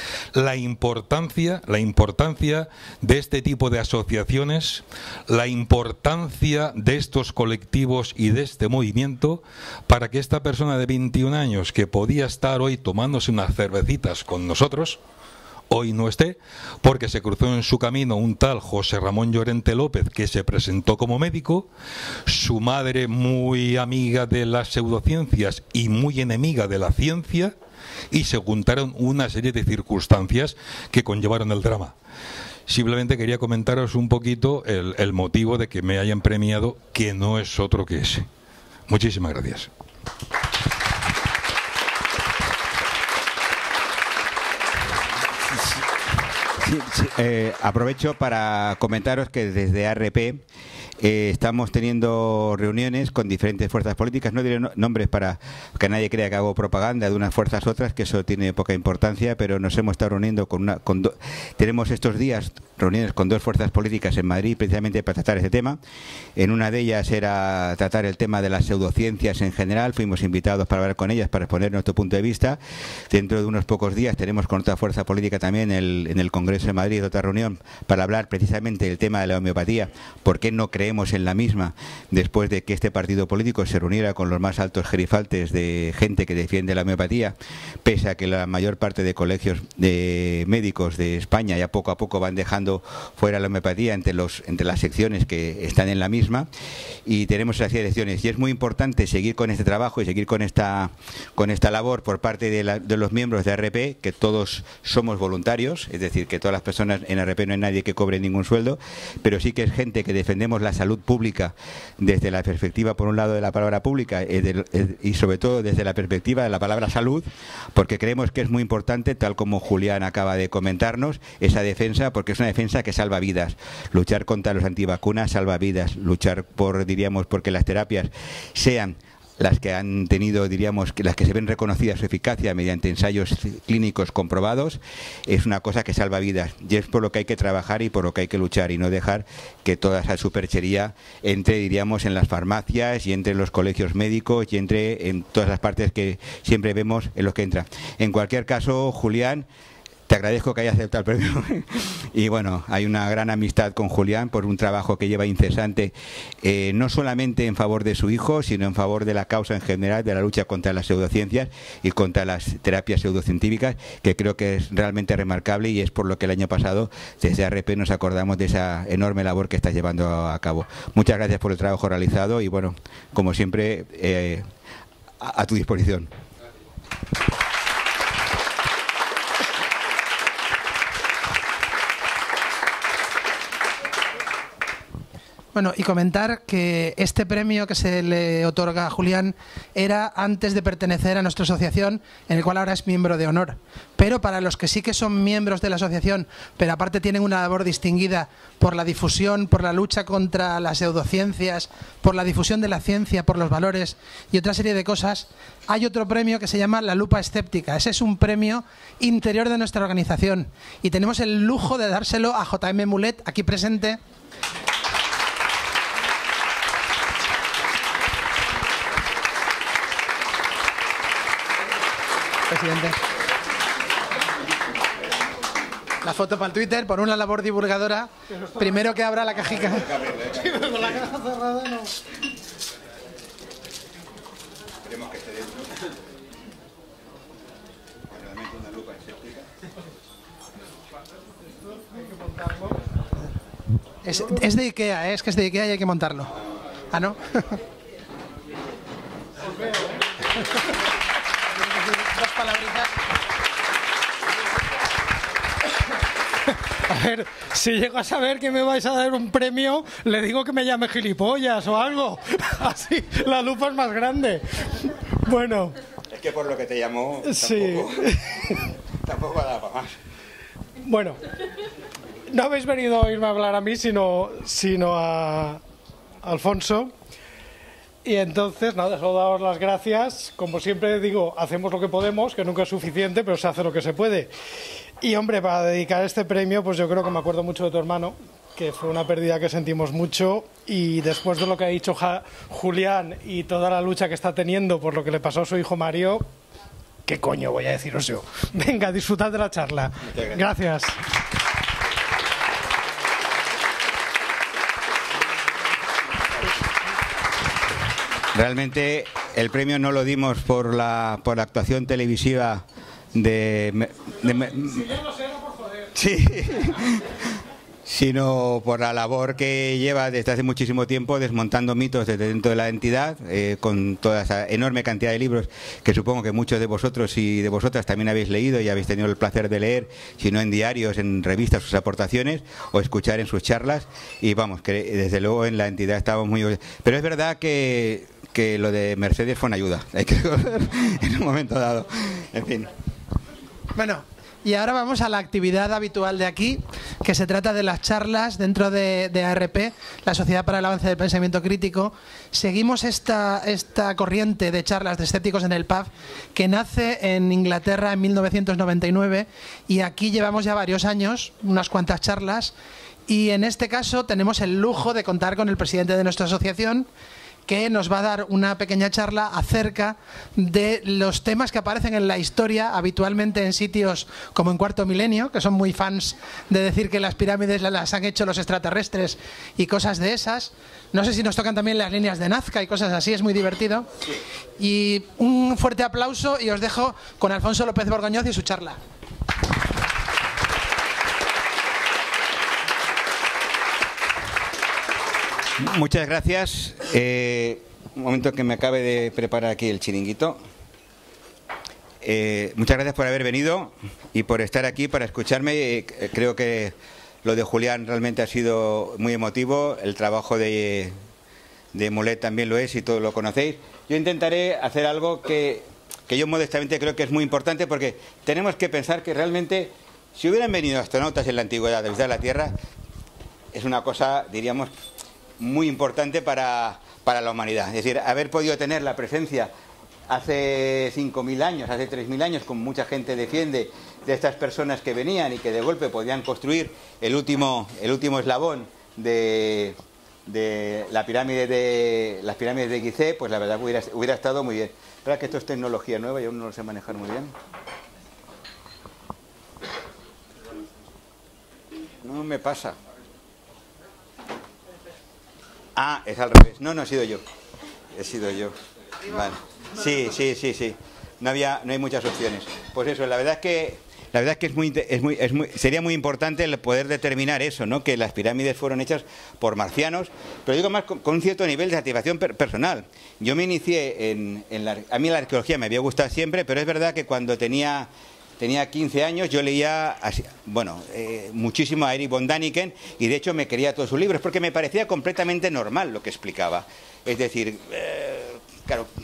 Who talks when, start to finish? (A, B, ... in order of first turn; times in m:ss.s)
0:00.3-0:15.0 A
0:15.7-0:21.7 A
0:22.2-0:27.5 A
0:28.1-0:31.9 A
0:32.7-0:38.2 A
0:38.9-0:39.7 A
0:46.6-0:50.4 B
0:51.0-1:05.8 B
1:06.4-1:36.5 B
1:37.0-2:29.5 B
2:30.1-2:54.4 B
2:55.2-2:56.1 B
3:05.5-3:34.0 C
3:42.5-3:43.0 C
3:46.0-3:49.9 C
3:49.7-3:50.6 B
3:50.6-3:51.7 D
3:54.8-3:55.7 B
3:58.1-3:59.5 B
4:01.7-4:02.7 D
4:04.0-4:06.3 C
4:06.9-4:07.6 C
4:09.5-4:10.0 D
4:12.0-4:12.9 C
4:16.9-4:25.8 D
4:26.1-4:30.0 B
4:27.2-4:28.2 D
4:30.8-4:31.2 D
4:32.3-4:35.6 D
4:36.2-4:36.9 D
4:38.0-4:44.3 D
4:45.0-4:56.3 D
4:57.0-5:01.0 D
5:08.3-5:14.8 B
5:14.2-5:15.9 D
5:15.9-5:17.2 B
5:17.8-5:42.7 B
5:43.7-6:02.5 C
6:03.1-6:06.9 C
6:07.5-6:23.9 C
6:24.6-6:28.8 C
6:35.6-6:40.4 B
6:42.0-6:50.9 B
6:51.7-7:02.6 B
7:03.5-7:04.7 B
7:05.4-7:09.5 B
7:10.1-7:27.3 B
7:32.0-7:32.8 B
7:35.8-7:37.2 B
7:37.9-8:08.9 B